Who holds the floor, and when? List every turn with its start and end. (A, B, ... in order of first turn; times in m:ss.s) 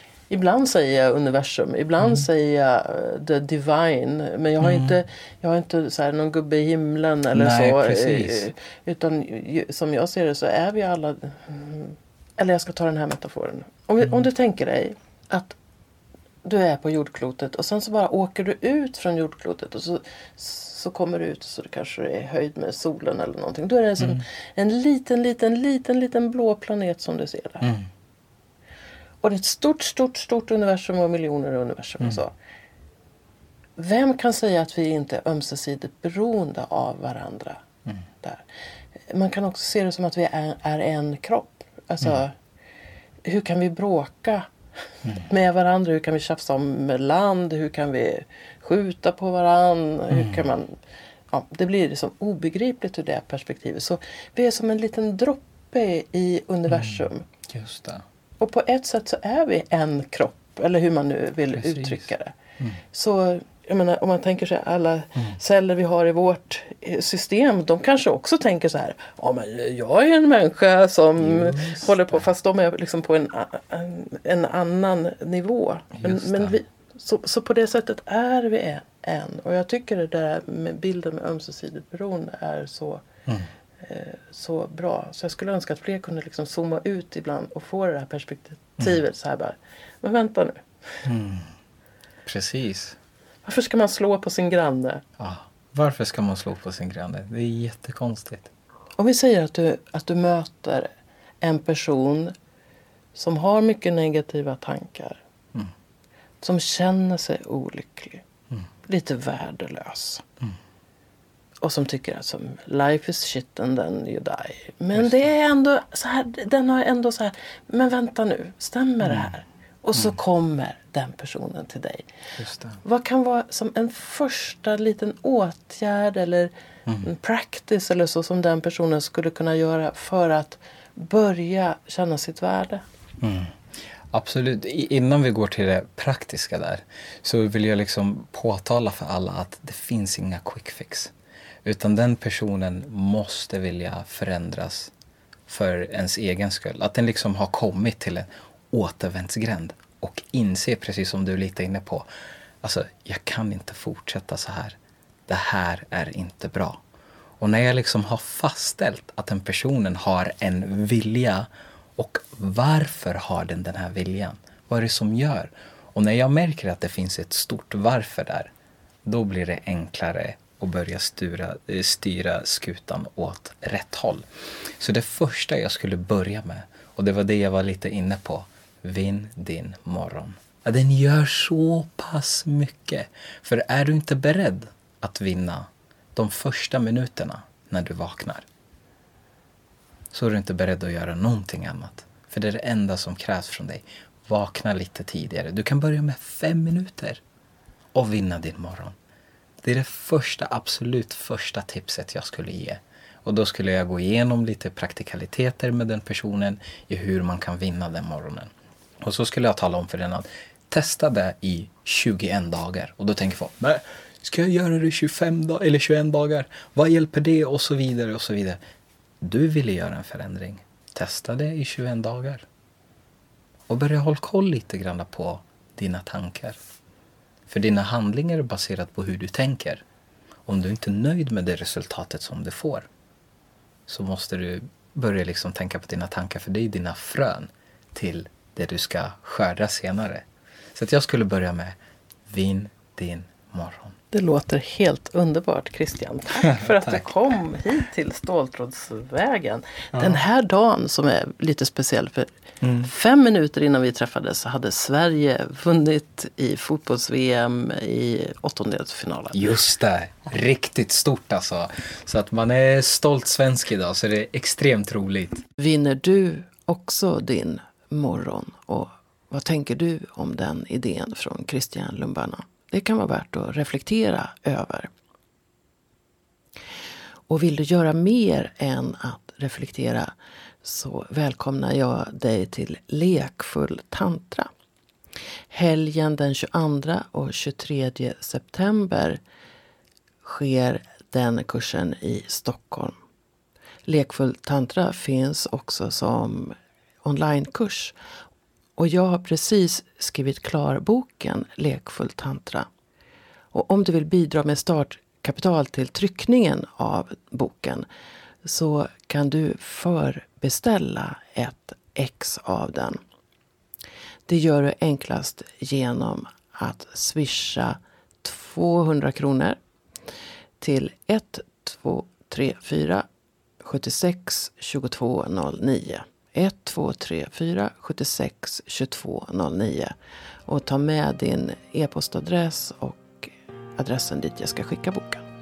0:00.3-0:15.6 A
0:04.6-0:05.0 B
0:07.3-0:08.5 B
0:16.4-0:27.7 A
0:27.6-0:27.9 B
0:29.2-0:32.3 A
0:33.8-0:37.6 A
0:39.1-0:42.4 A
0:43.2-0:44.5 A
0:45.1-0:50.8 A
0:50.1-0:50.5 B
0:51.3-0:57.2 A
0:56.7-0:58.0 B
0:58.4-1:02.4 A
1:01.5-1:02.1 B
1:02.9-1:23.1 A
1:11.2-1:12.2 B
1:16.0-1:16.6 B
1:23.8-1:30.6 A
1:31.0-1:31.5 B
1:32.2-1:33.0 B
1:33.4-1:35.0 A
1:35.2-1:38.5 B
1:39.0-1:40.9 A
1:41.4-1:42.3 A
1:43.2-1:45.2 A
1:46.4-1:48.2 A
1:48.8-1:50.2 A
1:51.6-2:02.1 A
1:59.0-1:59.3 B
2:02.4-2:02.8 B
2:02.8-2:06.5 A
2:07.0-2:12.8 A
2:13.2-2:13.6 B
2:14.1-2:21.1 B
2:21.6-2:24.9 B
2:25.5-2:32.1 B
2:32.6-2:34.8 B
2:35.3-2:36.8 B
2:37.4-2:48.5 B
2:49.0-2:54.3 B
2:54.8-3:08.5 B
3:10.1-3:17.2 B
3:17.9-3:19.0 B
3:19.6-3:28.5 B
3:29.0-3:38.6 B
3:39.2-3:42.4 B
3:43.7-3:46.6 B
3:47.5-3:49.8 B
3:50.5-3:52.9 B
3:53.9-4:01.8 B
4:02.3-4:04.0 B
4:04.1-4:19.5 A
4:06.4-4:07.1 B
4:12.6-4:12.9 B
4:19.3-4:25.4 B
4:25.6-4:34.9 A
4:37.3-4:44.5 A
4:45.5-4:49.2 A
4:50.2-4:53.0 A
4:53.9-4:58.0 A
4:58.8-5:02.7 A
5:03.5-5:07.9 A
5:08.4-5:13.0 A
5:14.3-5:19.6 A
5:20.6-5:23.1 A
5:23.6-5:29.9 A
5:30.5-5:35.2 A